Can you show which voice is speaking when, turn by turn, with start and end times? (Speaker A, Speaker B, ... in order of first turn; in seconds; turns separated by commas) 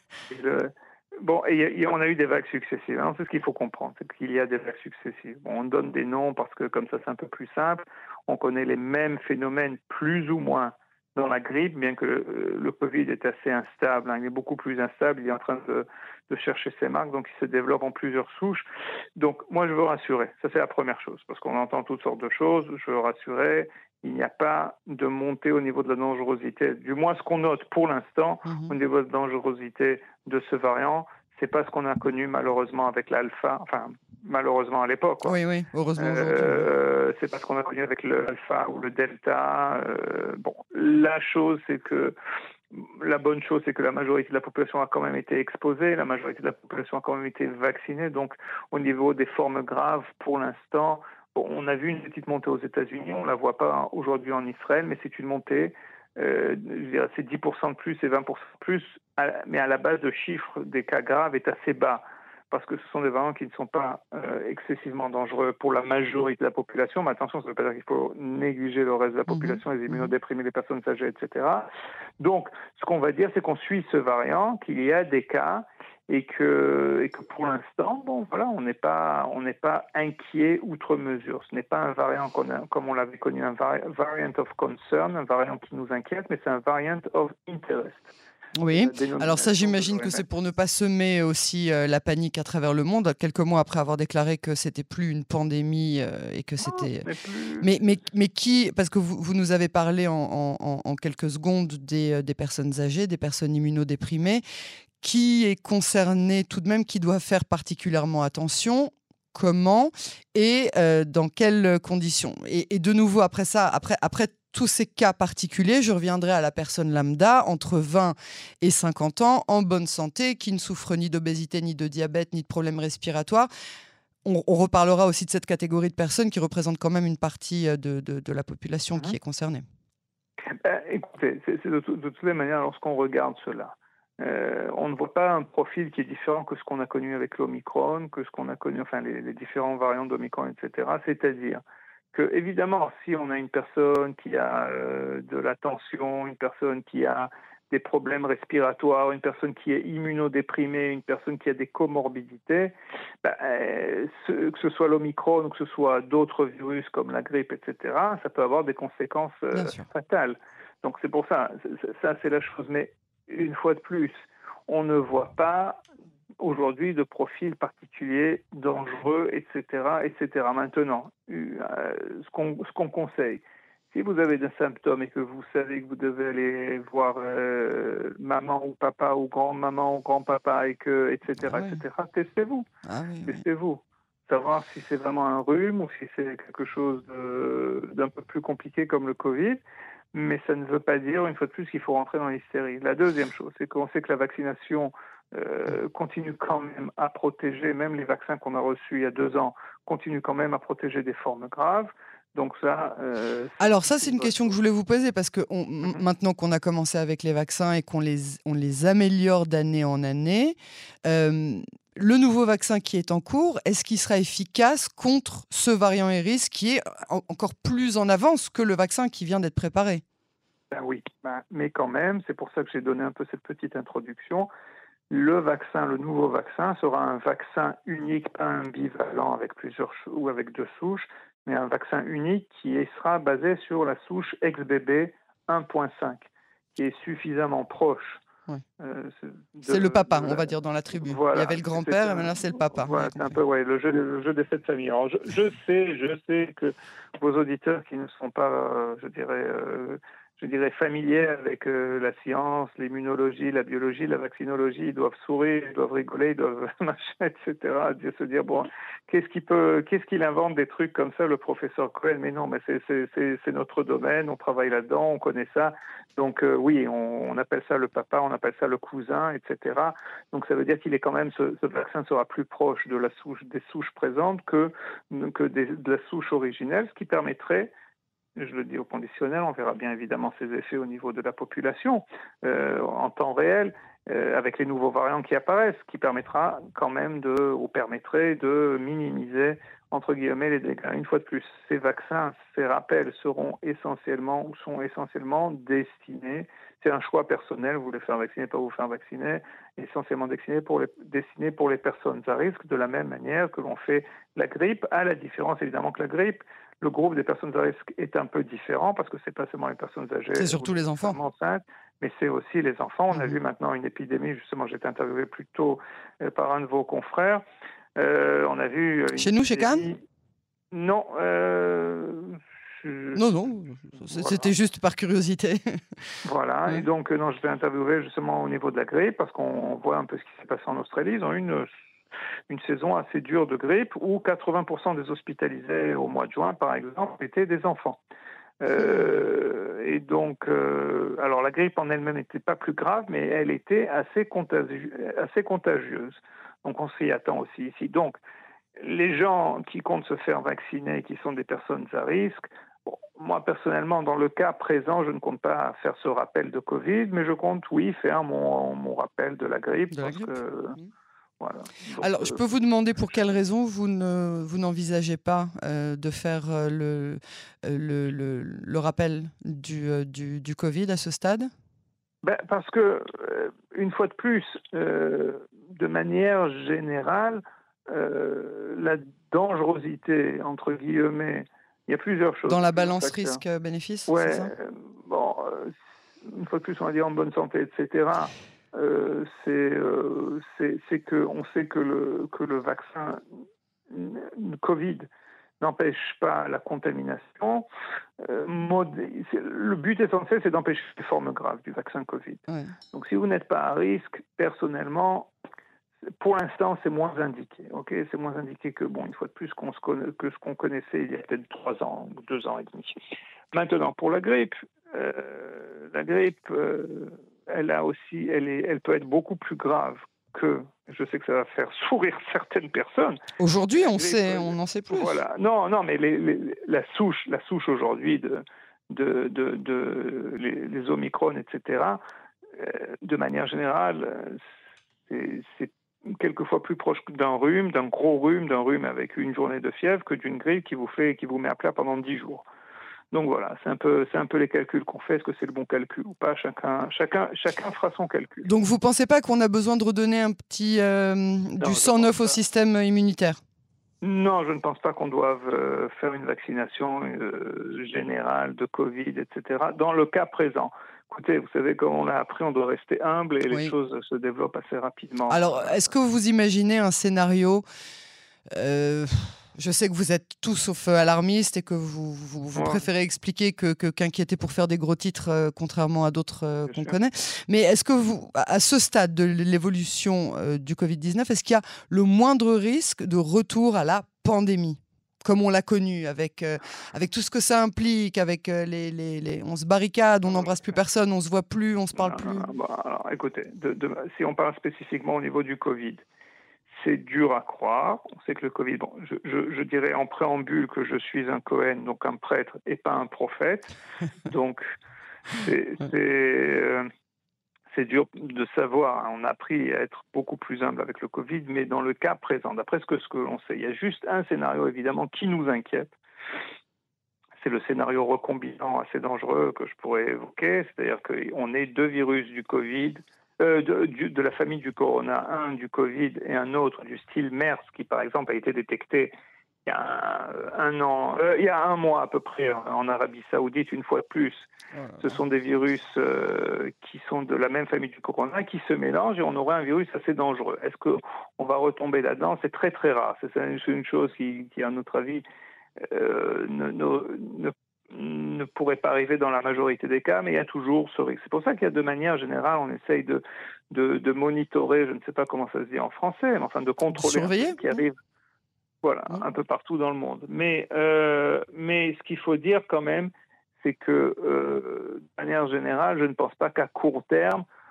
Speaker A: 0.3-18.6, Speaker A: 19.2-35.3, Speaker B: 28.5-28.7, Speaker B: 35.2-36.7, Speaker A: 36.0-42.1, Speaker A: 42.7-71.7, Speaker B: 69.3-70.1, Speaker A: 72.2-88.1, Speaker B: 88.5-97.0, Speaker A: 88.7-90.2, Speaker A: 96.6-97.7, Speaker B: 97.6-104.4, Speaker B: 105.0-123.5, Speaker B: 124.2-129.7, Speaker A: 130.6-141.6, Speaker A: 142.1-164.1, Speaker B: 159.5-159.9, Speaker A: 164.7-165.8, Speaker A: 166.4-182.7, Speaker B: 181.5-181.8, Speaker B: 182.8-183.4, Speaker A: 183.3-189.6, Speaker A: 190.1-204.6, Speaker B: 203.6-220.0, Speaker A: 220.7-224.5, Speaker A: 225.1-238.2, Speaker A: 238.8-277.7, Speaker B: 239.7-243.3, Speaker A: 278.4-317.4, Speaker B: 310.3-311.2, Speaker A: 317.9-320.0, Speaker B: 319.2-319.9, Speaker A: 320.7-323.2, Speaker B: 323.1-326.0, Speaker A: 324.0-324.5, Speaker A: 326.2-331.6, Speaker A: 332.5-338.0, Speaker A: 338.6-348.2, Speaker A: 348.8-360.8, Speaker B: 359.9-360.9, Speaker A: 361.4-362.4, Speaker B: 362.0-371.5, Speaker A: 372.2-383.4, Speaker B: 382.4-384.5, Speaker A: 384.1-393.2, Speaker A: 393.9-395.1, Speaker A: 395.6-397.7, Speaker A: 398.2-405.3, Speaker B: 402.5-402.7, Speaker A: 406.2-413.0, Speaker A: 413.5-423.2, Speaker B: 423.4-425.2, Speaker A: 423.8-432.0, Speaker A: 432.5-434.4, Speaker A: 435.1-442.4, Speaker A: 443.1-448.5, Speaker B: 448.4-453.4, Speaker A: 451.6-452.4, Speaker A: 454.0-465.9, Speaker B: 463.5-463.7, Speaker B: 465.3-467.6, Speaker B: 468.5-492.4, Speaker A: 472.5-472.9, Speaker A: 476.7-476.9, Speaker A: 490.2-490.8, Speaker A: 491.9-496.0, Speaker A: 496.7-504.6, Speaker A: 505.4-506.9, Speaker A: 507.7-515.9, Speaker A: 517.4-529.1, Speaker A: 529.6-534.5, Speaker B: 534.8-535.0, Speaker A: 535.0-545.2, Speaker A: 545.9-558.0, Speaker B: 556.9-557.6, Speaker A: 558.8-567.4